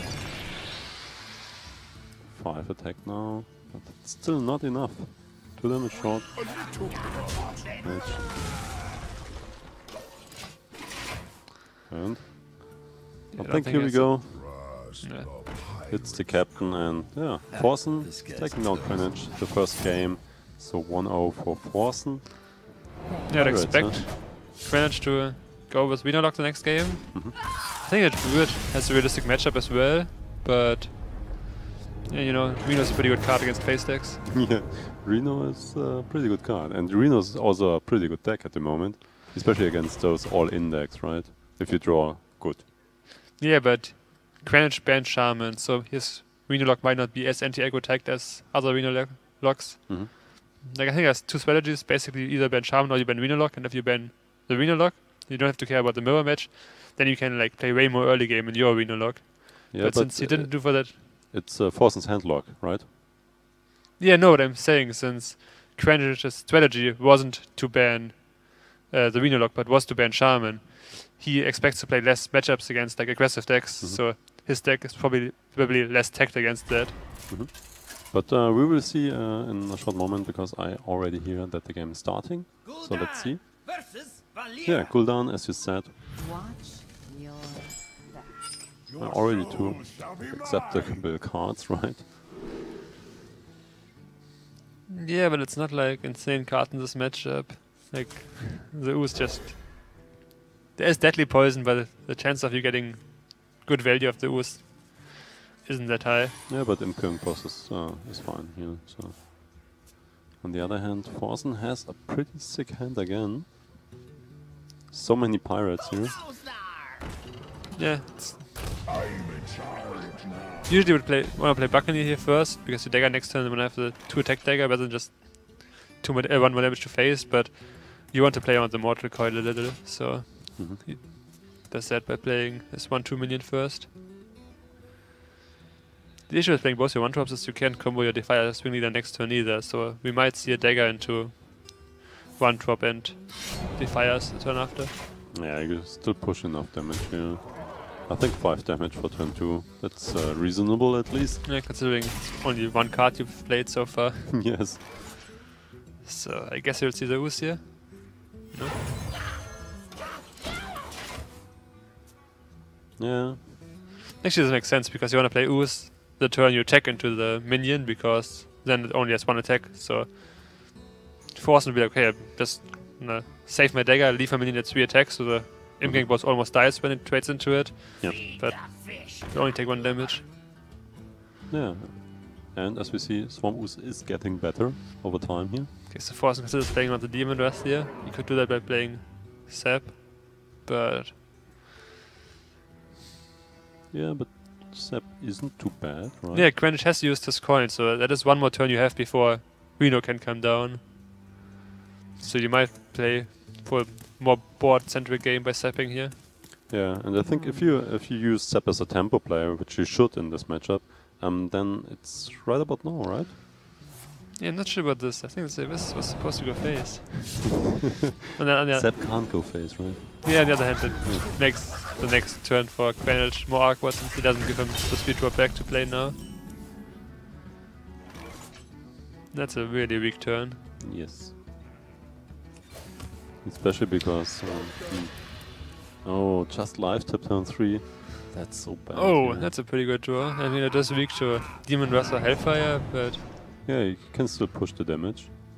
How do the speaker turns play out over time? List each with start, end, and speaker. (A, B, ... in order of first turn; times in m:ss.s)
0:02.3-0:06.9 A
0:07.8-0:08.4 A
0:11.9-0:14.5 A
0:13.3-0:15.3 B
0:15.8-0:22.4 A
0:17.5-0:19.3 C
0:23.0-0:23.6 D
0:23.3-0:31.5 B
0:23.3-0:24.0 A
0:32.0-0:34.2 B
0:34.2-0:42.6 A
0:43.4-1:01.0 B
0:59.7-1:02.9 A
1:04.0-1:17.0 B
1:17.3-1:23.4 A
1:23.4-1:24.4 C
1:24.6-1:25.9 A
1:26.1-1:29.0 D
1:29.0-1:32.0 A
1:34.9-1:40.1 B
1:40.8-1:46.4 B
1:46.5-1:49.7 A
1:50.4-1:53.5 A
1:54.9-1:56.2 A
1:57.7-1:58.4 B
2:00.7-2:13.9 B
2:16.3-2:24.9 B
2:25.3-2:31.4 A
2:31.4-2:34.5 B
2:34.3-2:34.9 A
2:36.0-2:38.8 B
2:43.0-2:43.4 A
2:44.2-3:00.2 B
2:55.8-2:56.1 A
3:01.5-3:05.7 A
3:05.9-3:11.2 B
3:13.9-3:16.5 A
3:16.3-3:20.9 B
3:22.2-3:26.7 B
3:26.7-3:33.4 A
3:27.2-3:27.7 D
3:34.4-3:37.6 B
3:38.3-3:39.5 B
3:38.6-3:41.2 A
3:40.2-3:46.2 B
3:49.3-3:50.6 B
3:50.8-3:51.3 A
3:53.4-3:59.5 A
3:58.9-4:03.2 B
4:03.6-4:05.3 A